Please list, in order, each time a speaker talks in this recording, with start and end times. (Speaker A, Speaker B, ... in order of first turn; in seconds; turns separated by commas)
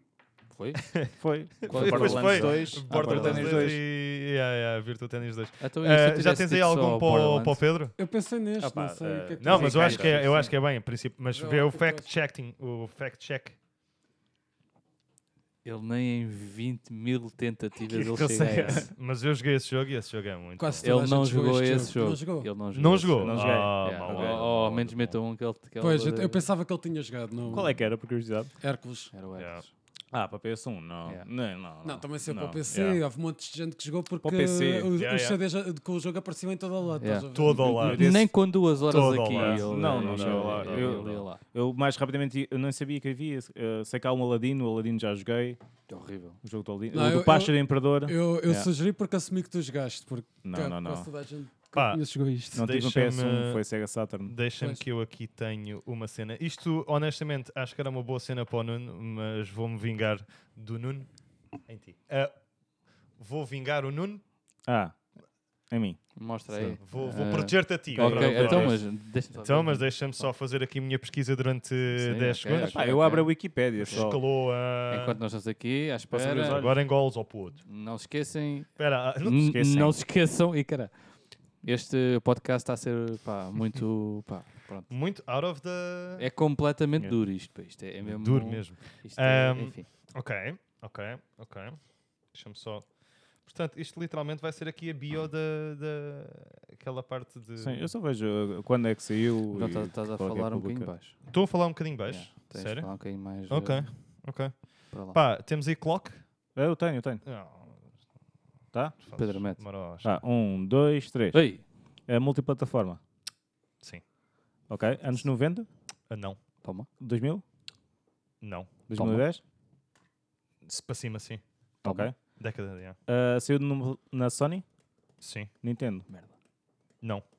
Speaker A: 0.5-3.8, Speaker B: 1.2-3.8, Speaker C: 1.6-7.9, Speaker A: 5.6-7.6, Speaker D: 8.0-10.3, Speaker B: 8.6-10.3, Speaker C: 9.4-13.6, Speaker A: 9.7-10.5, Speaker D: 11.3-12.1, Speaker A: 15.6-18.9, Speaker B: 17.9-18.9, Speaker C: 18.9-20.9, Speaker D: 20.6-22.5, Speaker A: 20.8-26.4, Speaker C: 22.7-24.5, Speaker B: 23.2-25.2, Speaker D: 25.8-27.9, Speaker B: 27.5-28.5, Speaker D: 28.6-29.1, Speaker A: 29.1-29.7, Speaker C: 29.4-29.6, Speaker B: 30.1-33.0, Speaker D: 31.8-38.0, Speaker B: 34.2-34.9, Speaker C: 35.0-35.4, Speaker A: 37.0-41.4, Speaker C: 37.3-38.1, Speaker B: 37.5-38.3, Speaker C: 38.9-41.1, Speaker B: 39.3-45.6, Speaker A: 45.9-46.4, Speaker B: 46.4-48.7, Speaker D: 46.9-52.7, Speaker B: 50.4-51.1, Speaker C: 51.7-53.6, Speaker B: 52.5-54.3, Speaker C: 54.3-61.1, Speaker C: 61.6-62.3, Speaker C: 63.2-64.2, Speaker B: 64.7-64.9, Speaker B: 65.7-66.0, Speaker A: 66.2-70.3, Speaker C: 66.8-68.9, Speaker B: 67.9-68.8, Speaker C: 69.4-72.9, Speaker A: 71.9-74.2, Speaker B: 72.5-74.2, Speaker C: 73.8-75.2, Speaker A: 74.9-76.7, Speaker B: 76.1-76.8, Speaker C: 76.5-77.6, Speaker A: 77.7-84.9, Speaker C: 78.8-79.5, Speaker B: 79.4-79.9, Speaker C: 84.9-86.2, Speaker A: 86.2-89.8, Speaker C: 88.0-97.9, Speaker B: 97.6-100.9, Speaker A: 99.5-101.3, Speaker C: 101.3-106.2, Speaker A: 102.1-103.9, Speaker A: 104.9-105.2, Speaker B: 106.5-107.2, Speaker C: 107.2-107.8, Speaker C: 109.0-110.1, Speaker A: 109.2-109.6, Speaker B: 110.0-111.4, Speaker A: 111.3-111.6, Speaker B: 112.1-113.0, Speaker B: 114.7-115.7, Speaker C: 116.1-116.4, Speaker B: 117.0-117.4, Speaker C: 118.4-118.8, Speaker B: 118.9-119.4, Speaker A: 118.9-119.2, Speaker C: 120.7-121.4, Speaker B: 121.8-122.2, Speaker A: 121.8-122.1, Speaker C: 122.2-123.0, Speaker B: 123.1-124.6, Speaker C: 125.2-125.5, Speaker B: 125.6-126.1